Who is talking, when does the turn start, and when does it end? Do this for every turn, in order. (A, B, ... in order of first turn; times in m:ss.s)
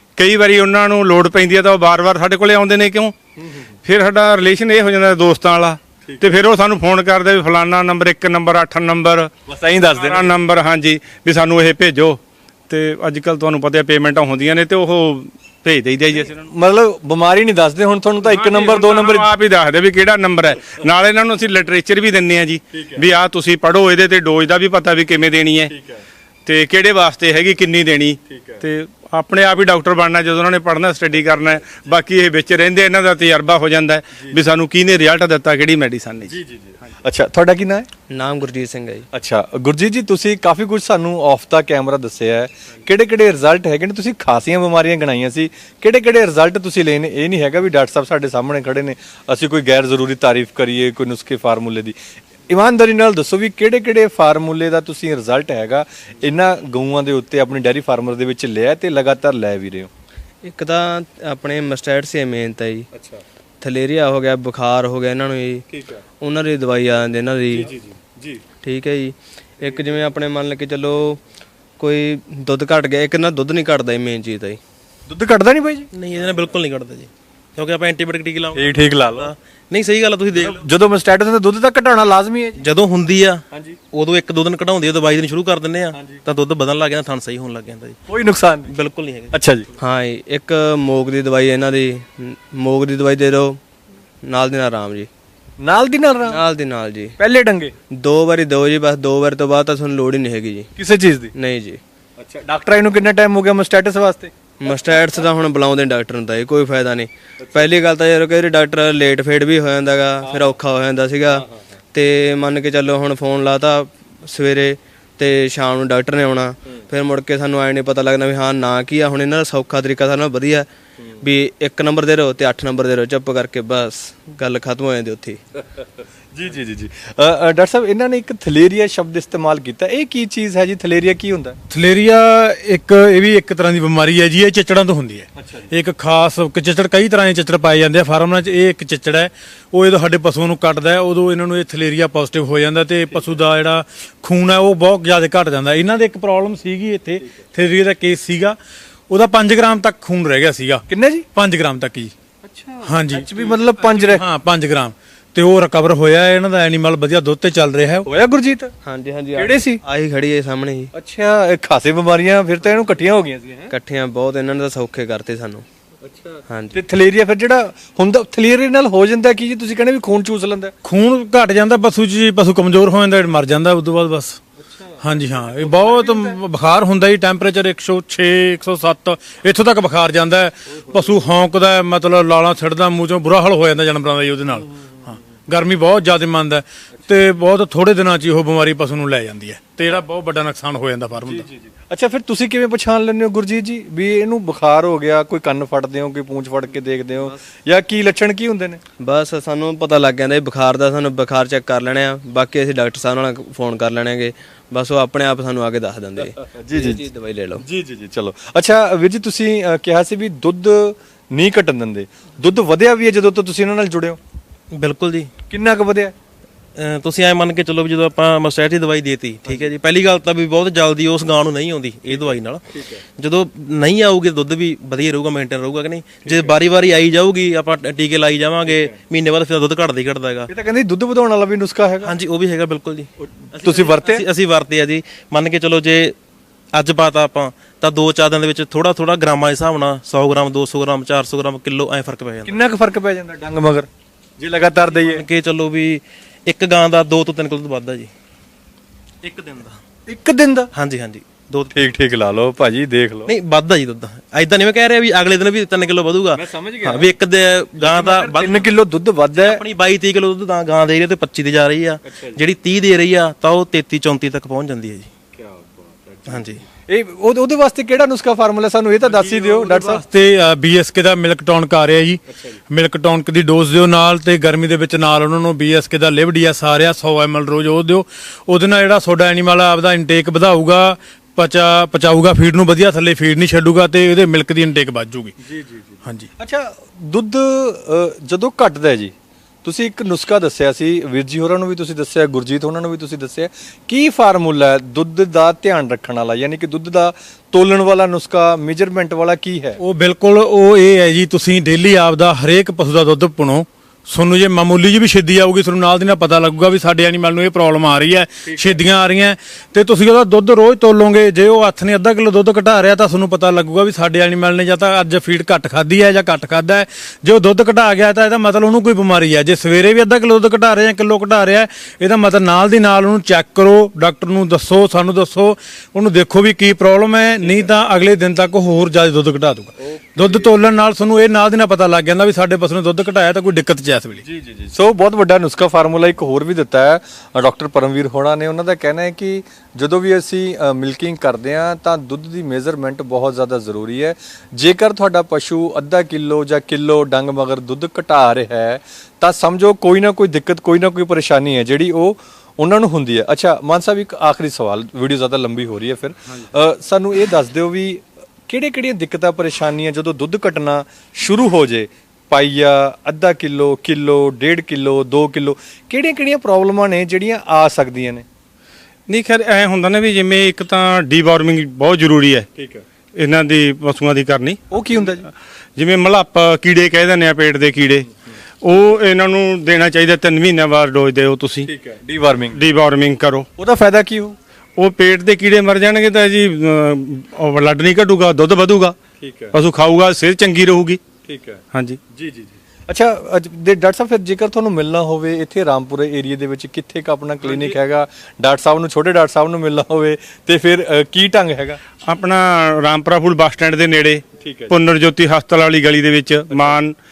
0:00.2-0:03.1 A
0:03.4-0:03.7 B
0:03.8-0:09.3 A
0:09.5-0:10.3 B
0:09.8-0:16.4 A
0:16.1-0:19.3 B
0:18.2-0:25.7 A
0:22.7-0:23.0 B
0:25.7-0:26.0 B
0:26.4-0:36.3 A
0:28.3-0:28.6 B
0:31.3-0:31.9 B
0:36.3-0:37.9 B
0:38.1-0:39.0 C
0:39.1-0:51.9 B
0:52.5-0:59.9 B
1:00.4-1:02.9 C
1:02.9-1:03.2 B
1:03.6-1:05.6 C
1:05.7-1:06.0 B
1:06.2-1:07.7 C
1:07.5-1:08.4 B
1:08.6-1:11.2 C
1:09.6-1:10.1 B
1:11.8-1:14.6 C
1:15.1-1:15.9 B
1:15.9-1:20.6 D
1:18.5-1:19.3 B
1:20.3-1:22.6 B
1:22.6-1:28.0 D
1:23.5-1:23.8 B
1:25.9-1:26.2 B
1:28.1-1:28.7 B
1:28.7-1:29.3 D
1:29.3-1:29.7 B
1:29.8-1:33.6 C
1:34.2-1:35.1 C
1:35.6-1:36.4 B
1:36.2-1:37.2 C
1:37.2-1:37.7 B
1:37.9-1:40.7 C
1:40.8-1:41.3 B
1:41.3-1:41.8 C
1:42.2-1:44.3 B
1:44.6-2:00.7 C
1:47.4-1:47.7 B
1:51.4-1:51.7 B
2:01.2-2:05.4 C
2:05.8-2:11.6 B
2:11.7-2:28.6 E
2:15.4-2:15.7 B
2:29.1-2:32.1 E
2:30.9-2:31.3 B
2:32.4-2:34.2 B
2:32.8-2:38.1 E
2:38.0-2:38.7 B
2:38.8-2:40.9 C
2:39.3-2:39.8 B
2:40.9-2:43.7 B
2:43.7-2:45.6 C
2:46.0-2:50.7 B
2:46.5-2:46.8 C
2:50.8-2:54.4 E
2:54.6-2:56.4 B
2:55.0-3:11.5 E
3:11.2-3:18.8 B
3:19.0-3:27.6 C
3:26.4-3:27.0 B
3:27.6-3:34.2 B
3:34.8-3:35.3 D
3:35.5-3:36.1 B
3:36.8-3:42.6 D
3:42.1-3:43.0 B
3:43.2-3:50.5 D
3:46.2-3:46.6 B
3:50.5-3:52.1 B
3:52.0-3:56.1 D
3:53.2-3:54.2 B
3:56.7-4:02.6 D
4:02.4-4:03.9 B
4:04.4-4:05.2 B
4:04.8-4:08.1 D
4:09.2-4:09.8 D
4:10.1-4:10.7 B
4:10.7-4:11.7 D
4:11.7-4:13.3 B
4:13.3-4:18.7 D
4:16.4-4:17.1 B
4:17.8-4:19.6 B
4:19.3-4:25.1 D
4:22.0-4:22.4 B
4:25.4-4:30.0 B
4:26.3-4:26.6 D
4:29.2-4:45.3 E
4:32.3-4:32.6 B
4:45.4-4:59.8 B
4:59.8-5:34.2 E
5:08.5-5:08.8 B
5:27.4-5:27.7 B
5:29.8-5:30.5 B
5:34.2-6:08.2 B
6:09.1-6:12.5 A
6:12.6-6:12.8 B
6:13.2-6:14.6 A
6:14.7-6:15.2 B
6:15.8-6:18.0 A
6:18.6-6:21.7 A
6:21.6-6:22.6 B
6:22.5-6:23.5 A
6:23.6-6:24.4 B
6:24.8-6:29.0 A
6:29.2-6:29.6 B
6:29.5-6:31.0 A
6:31.3-6:31.6 B
6:31.7-6:32.0 A
6:32.1-6:41.8 B
6:42.0-6:47.0 A
6:44.4-6:44.7 B
6:46.5-6:46.8 B